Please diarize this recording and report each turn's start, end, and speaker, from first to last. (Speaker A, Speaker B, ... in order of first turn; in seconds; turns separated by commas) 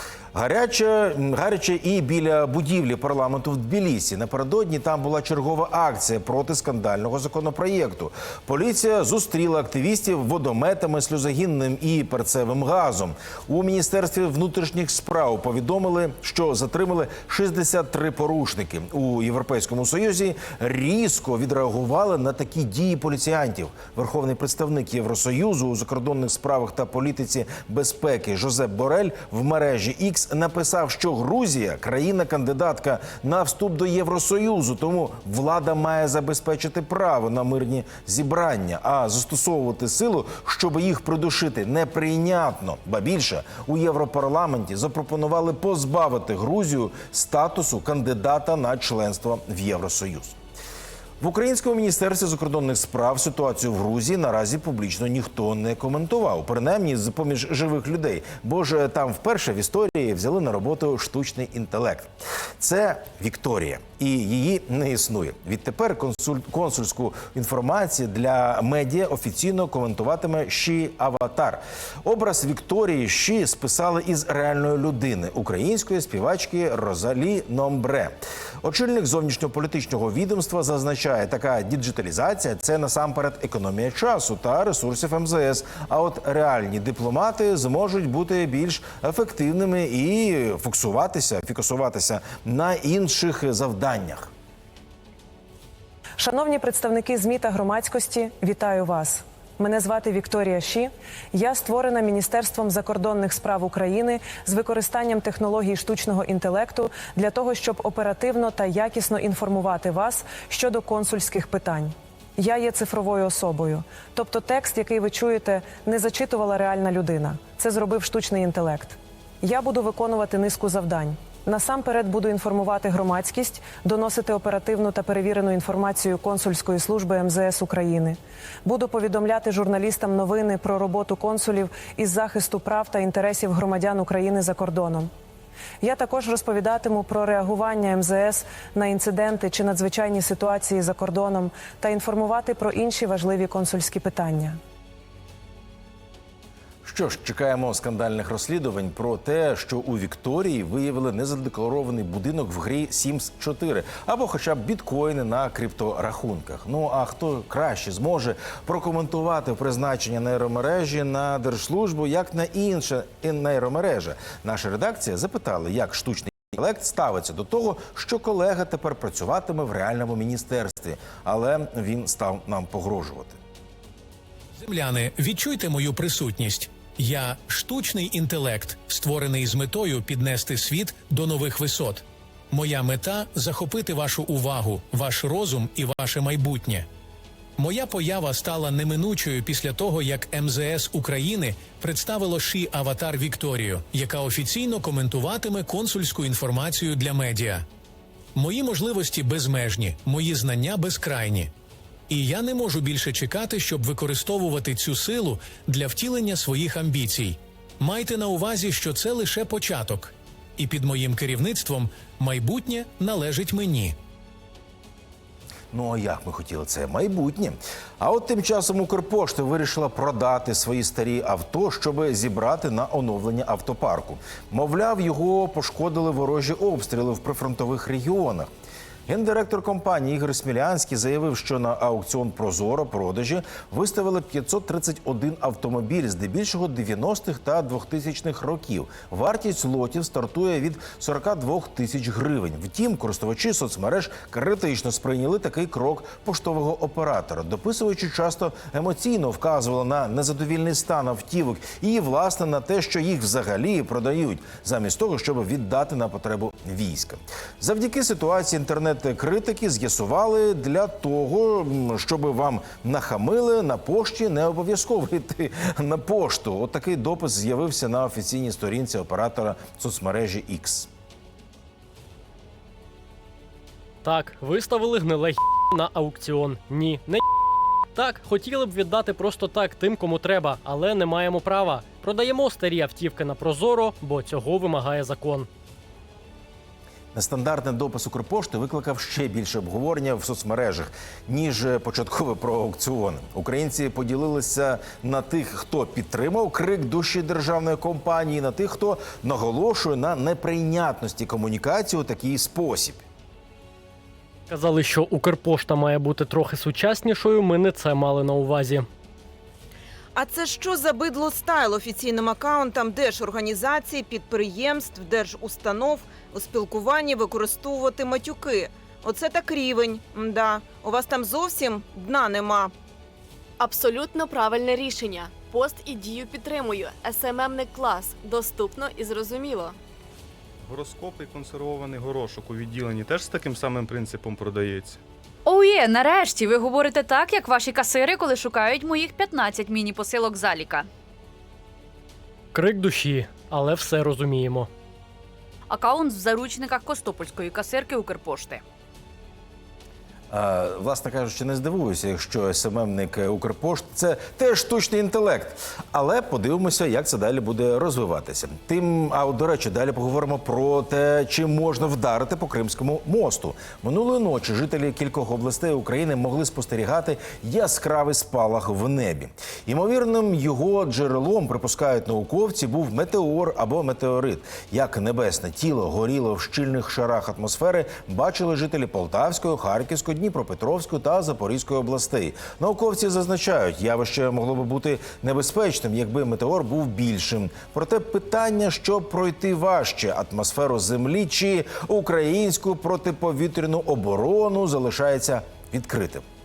Speaker A: 0.3-50.4, Speaker A: 51.2-94.3, Speaker B: 96.2-135.1, Speaker B: 135.8-144.6, Speaker A: 146.8-173.4, Speaker C: 174.6-186.9, Speaker C: 187.6-197.7, Speaker C: 198.3-201.5, Speaker C: 202.1-213.9, Speaker A: 215.7-228.5, Speaker A: 229.1-270.9, Speaker D: 274.0-277.3, Speaker D: 277.9-285.5, Speaker A: 287.1-303.0, Speaker D: 304.5-308.9, Speaker E: 310.1-322.7, Speaker F: 323.6-329.8, Speaker G: 330.6-335.0, Speaker H: 335.4-340.9, Speaker D: 342.5-344.7, Speaker H: 345.7-348.6, Speaker A: 350.3-396.3